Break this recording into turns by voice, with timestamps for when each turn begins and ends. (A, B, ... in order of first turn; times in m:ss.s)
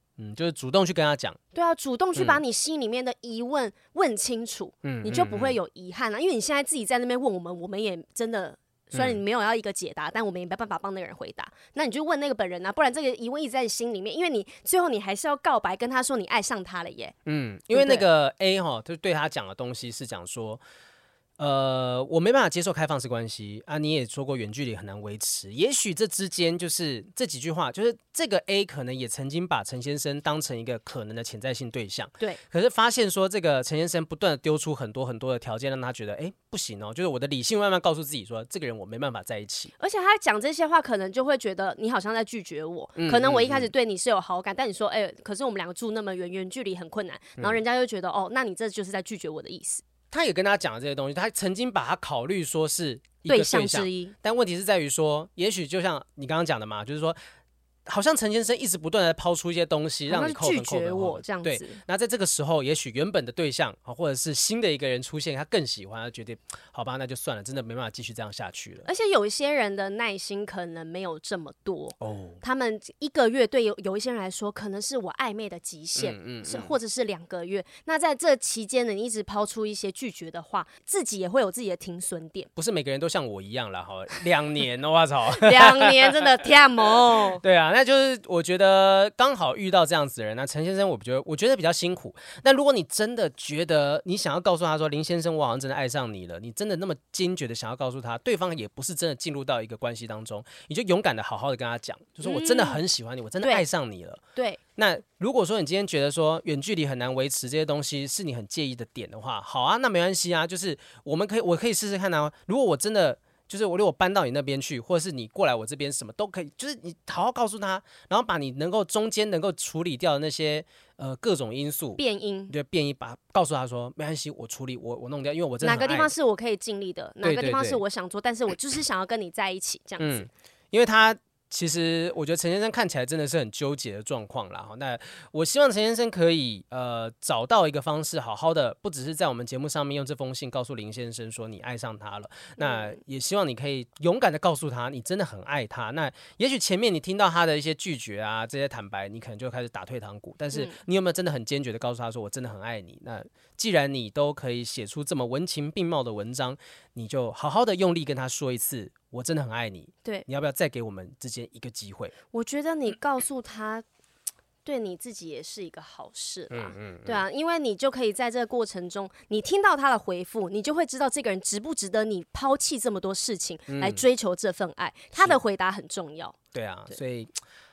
0:00.2-0:01.4 A
0:01.5-0:17.1 B
0:04.8-0:05.6 A
0:08.9-0:09.2 A
0:17.3-0:20.6 A
0:17.7-0:18.1 B
0:21.4-0:39.7 A
0:39.8-0:49.8 B
0:43.0-0:43.7 A
0:50.1-0:57.2 A
0:53.3-0:54.1 B
0:57.9-1:08.9 A
1:00.1-1:01.8 B
1:08.8-1:22.5 B
1:12.0-1:12.4 A
1:16.0-1:16.7 A
1:22.6-1:44.2 A
1:25.3-1:27.4 B
1:42.2-1:42.8 B
1:44.8-2:06.1 A
2:02.0-2:02.5 B
2:05.6-2:10.3 B
2:07.2-2:07.8 A
2:10.0-2:42.1 A
2:22.6-2:23.0 B
2:30.5-2:30.8 B
2:42.3-2:43.8 B
2:44.6-2:56.4 B
2:46.5-2:47.2 A
2:53.7-2:54.0 A
2:56.5-2:57.3 A